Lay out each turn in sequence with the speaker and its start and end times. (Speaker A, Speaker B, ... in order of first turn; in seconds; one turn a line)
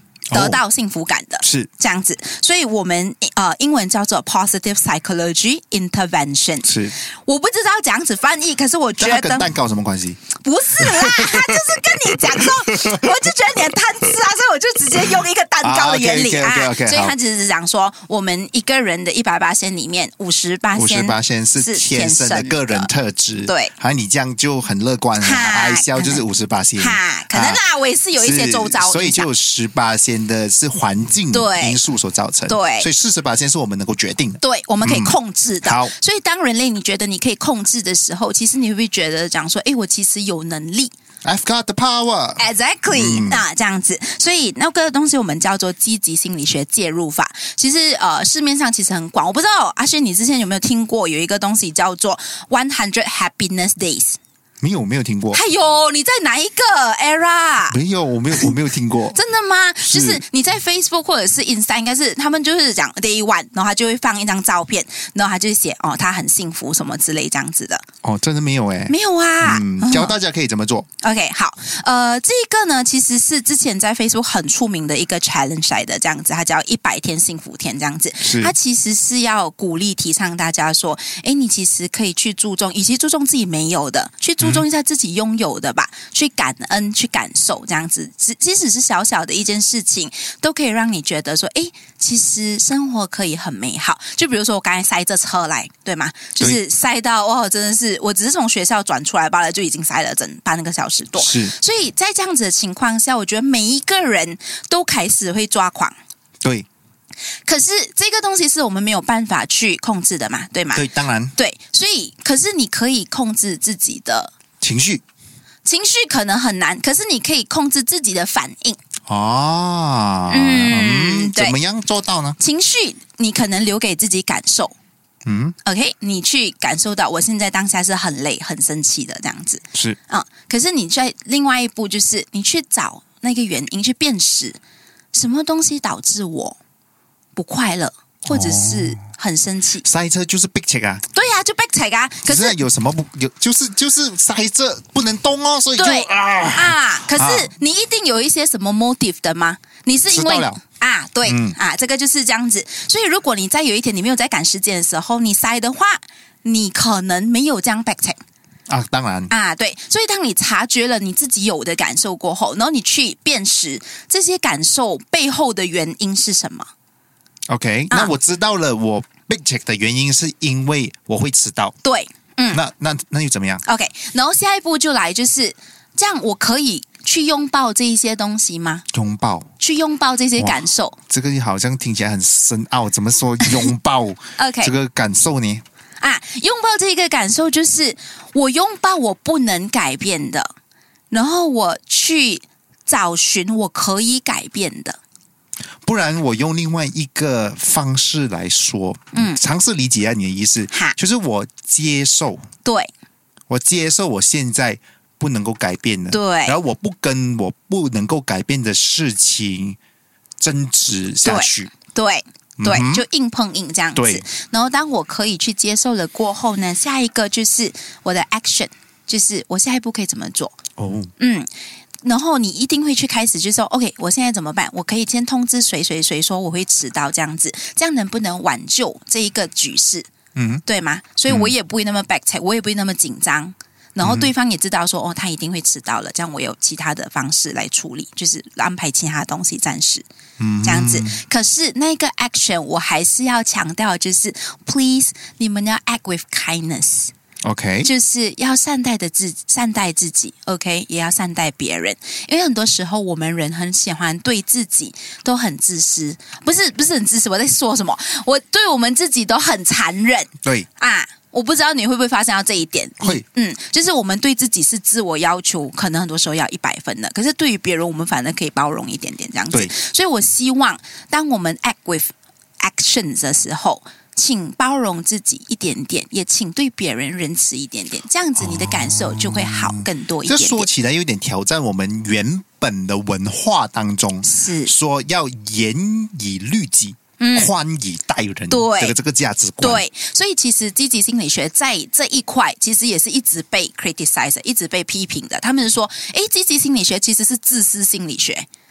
Speaker A: 0.3-0.6
Speaker B: 0.3-9.5
Speaker A: 1.4-1.7
Speaker A: 6.6-7.0
Speaker A: 9.0-10.2
Speaker B: 10.4-22.9
Speaker A: 10.8-11.5
Speaker A: 12.1-13.1
Speaker A: 15.6-17.1
Speaker A: 20.7-27.6
Speaker B: 23.4-23.7
Speaker B: 25.2-26.2
Speaker B: 26.8-29.3
Speaker A: 28.1-35.9
Speaker B: 31.3-31.8
Speaker B: 32.5-32.9
Speaker B: 34.4-40.9
Speaker A: 41.2-43.4
Speaker B: 42.4-54.2
Speaker A: 54.6-55.4
Speaker B: 55.3-57.8
Speaker A: 57.7-59.2
Speaker B: 59.1-67.8
Speaker A: 59.8-60.2
Speaker A: 68.0-70.9
Speaker B: 68.9-70.2
Speaker B: 71.0-106.0
Speaker A: 78.2-78.5
Speaker A: 84.4-84.7
Speaker A: 101.2-101.5
Speaker B: 107.5-114.3
Speaker A: 110.7-111.3
Speaker A: 114.6-115.0
Speaker B: 115.7-118.8
Speaker A: 119.1-122.4
Speaker B: 120.3-121.6
Speaker B: 122.4-124.8
Speaker A: 125.3-125.6
Speaker B: 125.6-134.6
Speaker B: 135.1-136.6
Speaker B: 137.4-139.9
Speaker A: 138.2-139.0
Speaker A: 139.8-141.0
Speaker B: 141.1-142.6
Speaker A: 142.2-147.5
Speaker B: 145.8-158.2
Speaker A: 150.1-150.6
Speaker A: 151.2-151.6
Speaker A: 158.7-159.3
Speaker B: 159.3-166.7
Speaker A: 167.5-171.8
Speaker B: 171.8-172.6
Speaker A: 172.5-173.6
Speaker B: 173.7-178.8
Speaker A: 178.9-179.5
Speaker B: 179.6-181.0
Speaker A: 180.4-185.6
Speaker B: 183.4-183.7
Speaker B: 184.4-184.7
Speaker B: 186.0-190.5
Speaker B: 191.1-195.0
Speaker A: 195.8-202.4
Speaker B: 199.1-199.4
Speaker B: 202.6-202.9
Speaker A: 203.5-209.8
Speaker B: 206.1-206.6
Speaker A: 210.4-211.7
Speaker B: 211.2-220.6
Speaker A: 212.6-213.1
Speaker A: 213.9-214.3
Speaker A: 220.8-221.1
Speaker B: 221.2-221.5
Speaker B: 222.0-230.1
Speaker A: 230.4-230.6
Speaker B: 230.7-240.1
Speaker A: 231.3-231.5
Speaker A: 234.0-234.3
Speaker A: 240.4-241.2
Speaker B: 240.6-247.1
Speaker A: 247.4-247.9
Speaker B: 247.8-280.7
Speaker A: 278.4-289.8
Speaker B: 284.2-284.7
Speaker B: 287.2-287.5
Speaker B: 288.5-289.0
Speaker B: 289.6-298.5